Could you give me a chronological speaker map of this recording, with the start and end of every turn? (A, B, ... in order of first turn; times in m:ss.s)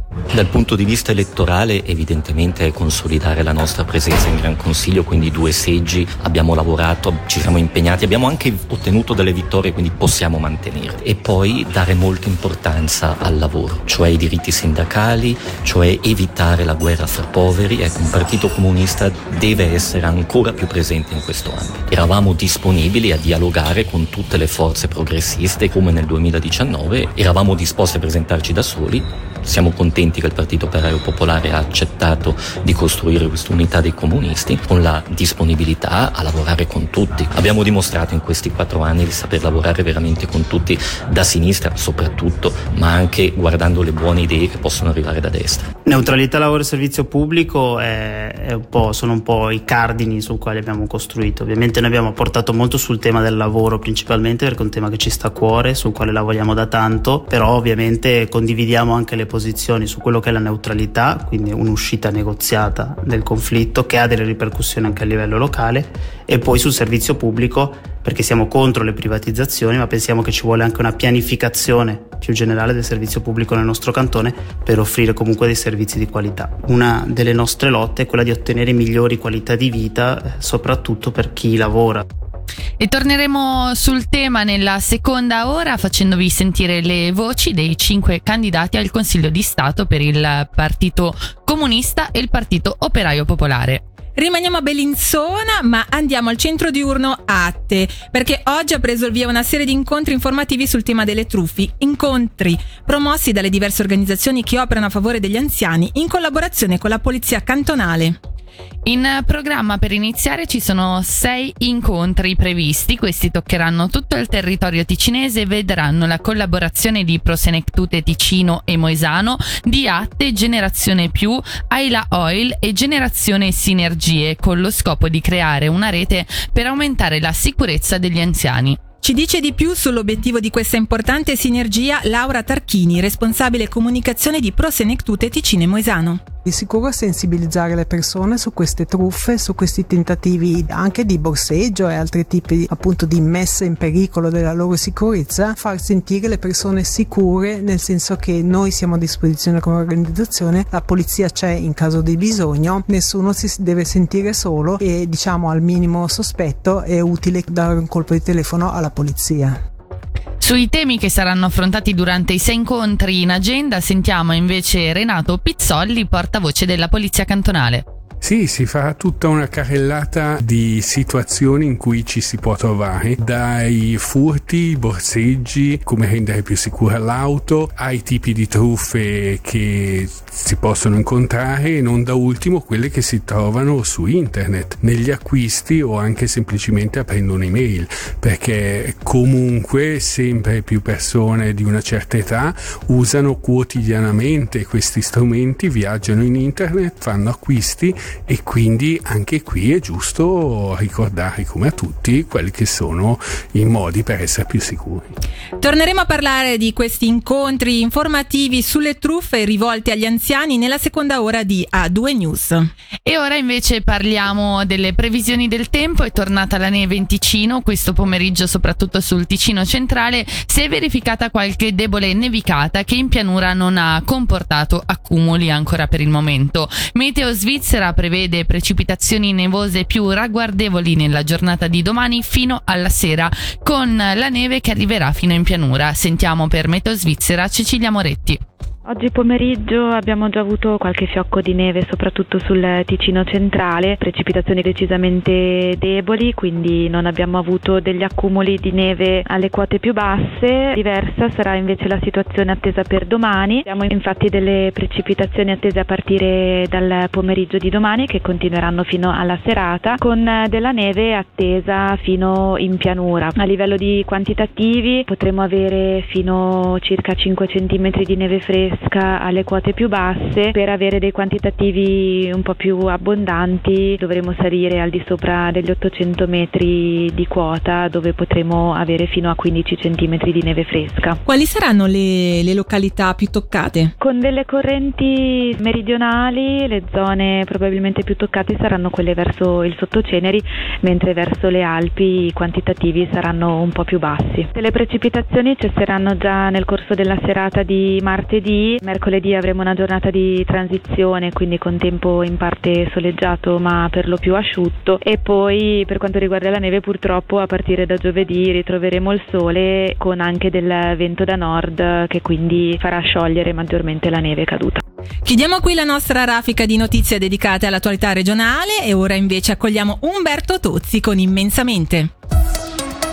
0:00.3-0:45.7 A
0:45.9-1:22.0 B
1:22.8-1:33.8 C
1:34.2-1:48.2 D
1:48.9-2:08.8 C
2:09.0-2:16.2 D
2:16.4-2:39.6 E
2:40.4-2:47.8 C
2:48.2-3:25.1 F
3:25.6-3:32.7 D
3:33.0-3:58.4 C
3:58.8-4:41.2 G
4:41.2-4:43.9 D
4:44.0-5:14.8 G
5:15.2-5:22.1 D